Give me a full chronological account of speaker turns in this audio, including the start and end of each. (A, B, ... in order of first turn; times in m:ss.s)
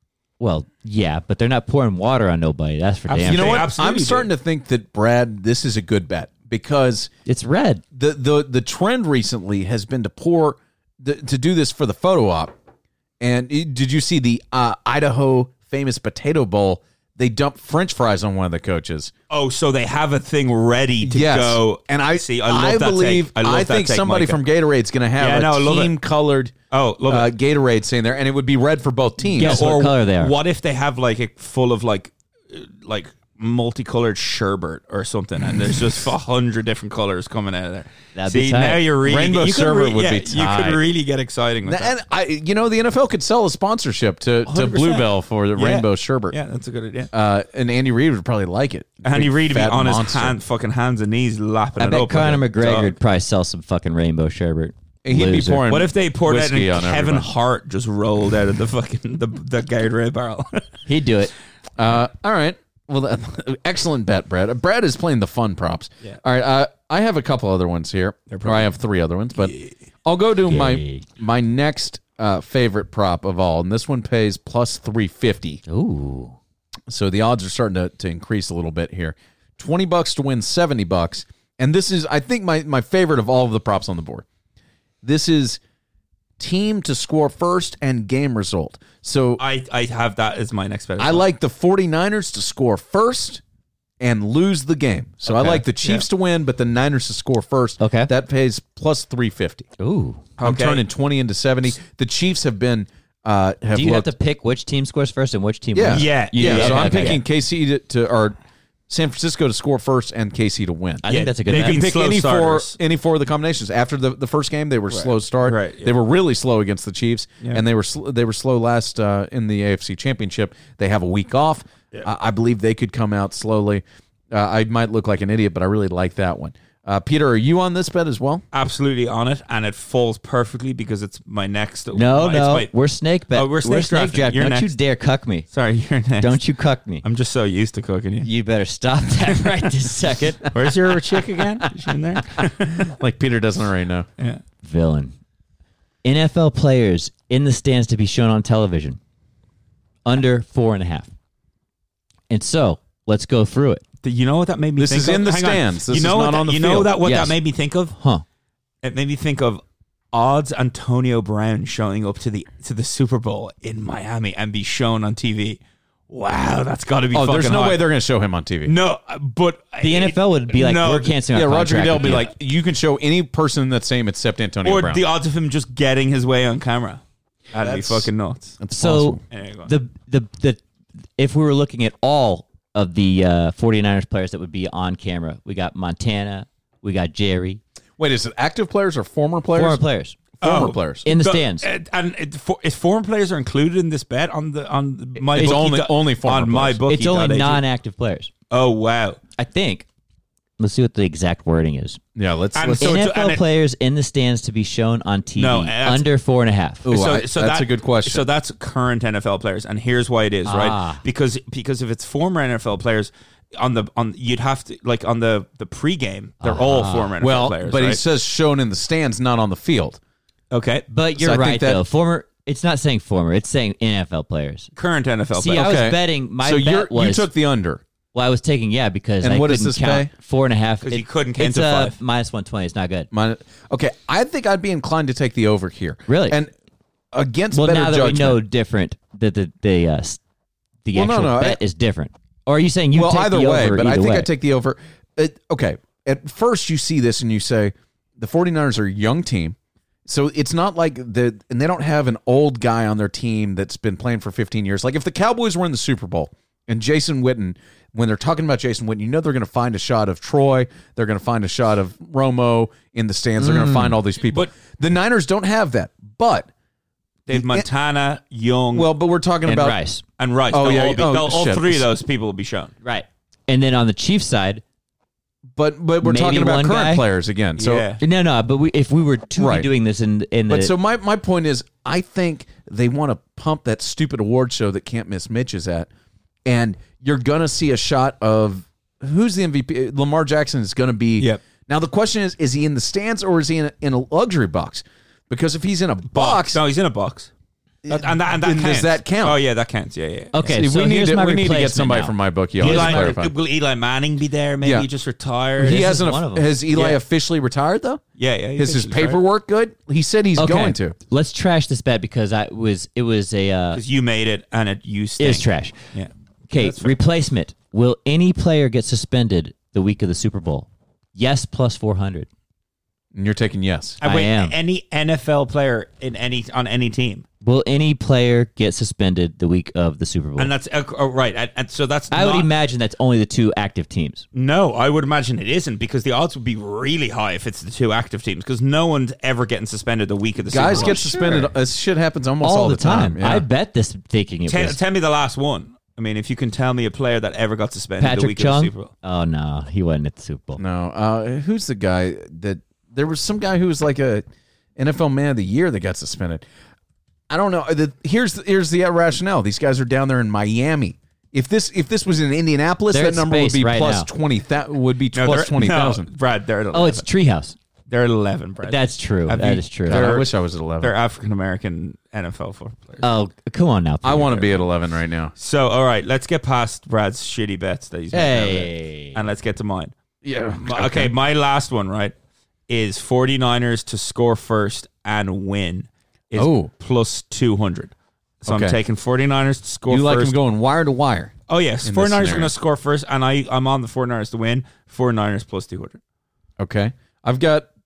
0:00.4-0:03.7 A
0:03.1-0:04.3 B
0:03.2-0:07.1 C
0:07.2-0:07.8 A
0:07.9-0:12.5 C
0:13.2-0:19.1 C
0:19.3-0:24.4 B
0:21.0-0:26.5 C
0:25.2-0:25.9 B
0:26.7-0:27.3 B
0:27.1-0:29.6 C
0:29.3-0:41.9 B
0:29.4-0:30.4 A
0:38.1-0:38.8 A
0:39.0-0:40.8 C
0:41.6-0:46.4 C
0:44.4-0:47.1 B
0:47.1-0:50.4 C
0:49.0-0:52.9 B
0:51.8-0:55.7 A
0:55.0-0:57.3 C
0:55.7-1:00.7 B
1:00.8-1:01.3 A
1:01.8-1:15.6 C
1:08.3-1:08.7 B
1:09.4-1:09.7 B
1:10.5-1:11.0 A
1:15.7-1:16.4 A
1:16.9-1:24.2 C
1:25.0-1:25.6 C
1:26.4-1:29.4 C
1:29.4-1:31.2 B
1:31.0-1:33.4 C
1:34.0-1:39.7 C
1:37.8-1:38.1 A
1:39.8-1:40.2 A
1:40.4-1:40.8 B
1:40.4-1:44.1 C
1:43.7-1:47.2 A
1:45.7-1:48.3 C
1:45.9-1:47.2 B
1:48.9-2:08.4 C
1:51.0-1:51.8 A
1:51.1-1:52.7 B
1:54.9-1:55.9 B
2:08.5-2:12.7 B
2:11.9-2:15.5 A
2:13.3-2:14.7 B
2:15.5-2:16.4 B
2:16.2-2:17.0 A
2:17.0-2:18.3 B
2:18.2-2:20.5 A
2:20.5-2:22.9 B
2:22.4-2:24.1 C
2:24.6-2:25.1 A
2:26.0-2:29.0 A
2:30.0-2:31.1 A
2:32.3-2:33.8 A
2:34.0-2:37.9 B
2:34.8-2:37.0 C
2:37.0-2:37.4 A
2:37.9-2:38.2 A
2:38.8-2:47.8 B
2:47.1-2:48.7 C
2:48.6-2:51.2 B
2:49.8-2:52.3 A
2:51.3-2:55.0 C
2:54.6-2:58.6 B
2:57.6-2:58.1 C
2:58.6-2:59.2 C
2:58.8-3:00.6 A
2:59.3-2:59.7 B
3:01.2-3:07.6 A
3:08.0-3:09.8 C
3:09.5-3:10.2 A
3:10.4-3:11.0 C
3:10.4-3:17.6 B
3:11.0-3:11.6 A
3:15.3-3:16.8 C
3:16.9-3:18.3 A
3:18.5-3:19.2 B
3:19.4-3:19.8 A
3:20.6-3:22.0 A
3:22.2-3:23.0 C
3:22.6-3:23.4 B
3:22.7-3:26.9 A
3:25.4-3:26.1 B
3:26.8-3:28.2 C
3:26.9-3:38.0 B
3:30.4-3:31.0 A
3:36.4-3:37.1 A
3:37.2-3:40.0 C
3:40.5-3:40.8 B
3:40.9-3:44.7 A
3:41.2-3:41.8 C
3:44.8-3:45.7 B
3:45.3-3:47.3 A
3:45.5-3:47.8 C
3:48.1-3:53.1 A
3:49.2-3:50.1 C
3:50.8-3:52.0 B
3:53.1-3:56.5 C
3:56.1-3:56.4 A
3:57.1-3:58.4 C
3:57.5-4:00.2 A
4:00.8-4:04.3 A
4:00.9-4:01.6 C
4:02.9-4:26.5 C
4:23.4-4:24.0 A
4:27.3-4:28.9 B
4:27.3-4:27.7 C
4:28.7-4:29.8 C
4:29.4-4:30.0 A
4:30.2-4:32.7 B
4:30.5-4:31.9 C
4:32.8-4:34.6 A
4:35.5-4:37.9 C
4:36.0-4:37.0 A
4:37.6-4:38.0 B
4:38.0-4:40.7 A
4:39.4-4:39.7 C
4:40.5-4:45.9 C
4:46.4-4:56.6 C
4:56.1-4:57.3 B
4:57.8-4:59.4 C
4:57.9-5:00.4 B
5:00.3-5:03.2 A
5:00.4-5:03.3 C
5:02.6-5:06.0 B
5:04.6-5:04.9 C
5:05.6-5:06.5 A
5:05.6-5:08.0 C
5:06.7-5:07.0 B
5:08.2-5:09.2 B
5:08.6-5:11.0 C
5:10.4-5:13.8 A
5:13.7-5:17.0 B
5:15.2-5:15.8 A
5:16.5-5:22.3 A
5:23.1-5:24.0 C
5:24.0-5:27.2 B
5:24.0-5:24.5 A
5:27.4-5:30.5 A
5:30.4-5:32.5 B
5:32.1-5:34.2 A
5:34.3-5:41.4 B
5:40.5-5:43.4 C
5:40.6-5:41.5 A
5:42.4-5:44.8 A
5:44.5-5:48.9 B
5:48.0-5:50.6 A
5:50.6-5:54.2 C
5:54.8-5:56.4 C
5:57.3-6:06.1 C
6:02.9-6:04.1 A
6:05.1-6:07.0 B
6:06.7-6:07.6 A
6:07.9-6:10.3 B
6:08.6-6:10.1 A
6:09.9-6:10.9 C
6:10.8-6:13.0 B
6:13.0-6:14.6 A
6:14.0-6:15.3 C
6:15.4-6:19.9 B
6:18.1-6:19.2 A
6:20.2-6:21.1 C
6:20.6-6:22.1 B
6:22.7-6:27.9 B
6:26.4-6:26.7 C
6:28.4-6:30.3 B
6:28.4-6:28.8 C
6:29.9-6:31.3 C
6:31.5-6:36.0 B
6:31.8-6:32.5 C
6:36.6-6:37.7 C